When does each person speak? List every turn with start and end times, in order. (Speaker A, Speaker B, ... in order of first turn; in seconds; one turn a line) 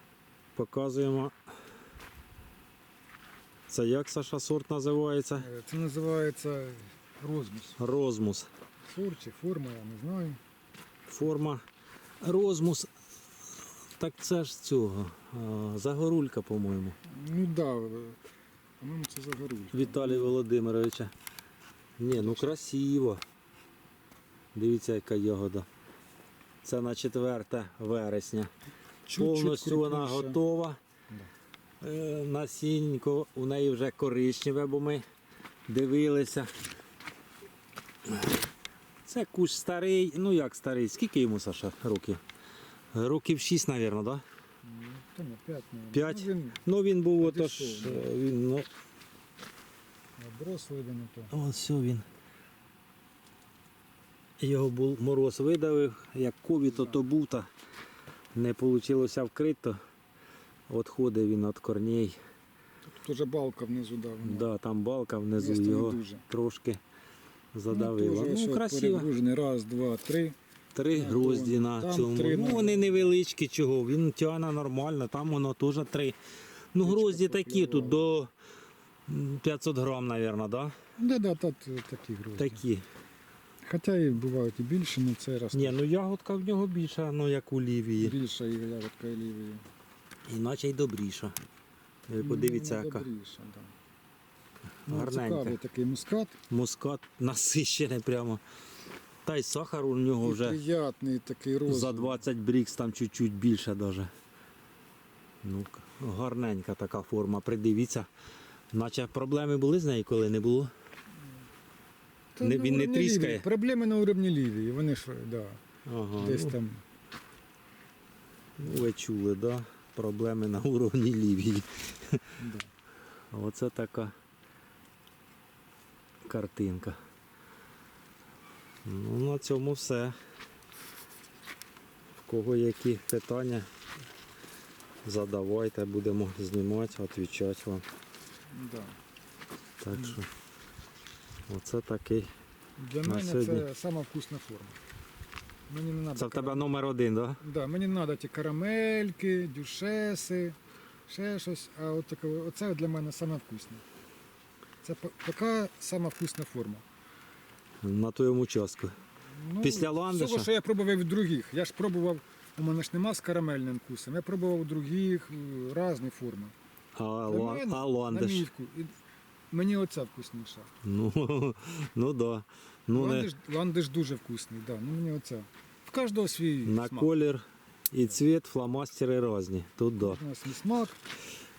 Speaker A: 0.5-1.3
Speaker A: 3.7-5.5
Speaker B: 5.4-7.8
Speaker A: 7.8-8.5
Speaker B: 8.9-10.4
Speaker A: 11.1-11.6
Speaker A: 12.2-12.9
Speaker A: 14.0-17.0
Speaker B: 17.1-18.2
Speaker B: 18.8-20.3
Speaker A: 19.7-21.1
Speaker A: 22.0-23.2
Speaker B: 22.1-22.5
Speaker A: 24.5-25.7
Speaker A: 26.6-28.5
Speaker B: 29.1-30.4
Speaker A: 29.1-30.8
Speaker A: 31.8-35.0
Speaker A: 35.7-36.5
Speaker A: 39.0-42.2
Speaker A: 42.9-44.2
Speaker B: 44.6-46.6
Speaker A: 45.9-48.7
Speaker B: 47.2-48.1
Speaker B: 50.2-51.3
Speaker A: 51.3-52.0
Speaker A: 54.4-57.5
Speaker A: 58.3-59.8
Speaker A: 60.7-62.2
Speaker B: 62.9-64.5
Speaker A: 64.2-66.8
Speaker B: 65.4-66.2
Speaker A: 67.5-69.1
Speaker B: 67.7-70.3
Speaker A: 70.7-76.2
Speaker B: 70.9-73.1
Speaker A: 76.7-78.3
Speaker B: 76.8-78.1
Speaker A: 79.1-80.8
Speaker B: 81.0-82.6
Speaker A: 82.4-82.8
Speaker B: 83.6-85.7
Speaker A: 85.5-88.1
Speaker B: 88.0-89.6
Speaker A: 90.3-91.3
Speaker A: 92.1-93.0
Speaker B: 92.2-93.7
Speaker A: 94.8-95.5
Speaker B: 94.9-96.3
Speaker A: 96.5-98.4
Speaker A: 99.2-100.6
Speaker B: 100.2-102.2
Speaker A: 101.7-104.1
Speaker A: 105.4-108.1
Speaker A: 108.7-110.7
Speaker B: 112.3-115.6
Speaker A: 112.4-113.4
Speaker A: 115.8-116.5
Speaker B: 116.2-116.8
Speaker A: 118.6-122.2
Speaker B: 122.4-122.7
Speaker A: 123.3-124.1
Speaker A: 126.2-127.0
Speaker A: 128.8-130.2
Speaker A: 132.2-133.7
Speaker A: 135.0-137.8
Speaker B: 138.5-138.9
Speaker A: 139.8-140.3
Speaker A: 141.5-142.3
Speaker B: 142.8-144.8
Speaker A: 143.0-143.6
Speaker B: 145.7-146.7
Speaker A: 146.2-147.4
Speaker B: 147.4-150.6
Speaker B: 151.1-153.8
Speaker B: 154.8-156.8
Speaker A: 157.8-158.9
Speaker B: 159.3-166.5
Speaker A: 159.6-160.5
Speaker A: 166.9-168.4
Speaker B: 167.3-168.9
Speaker B: 169.5-170.7
Speaker A: 170.8-173.3
Speaker B: 172.9-177.1
Speaker A: 176.6-180.2
Speaker B: 180.0-181.0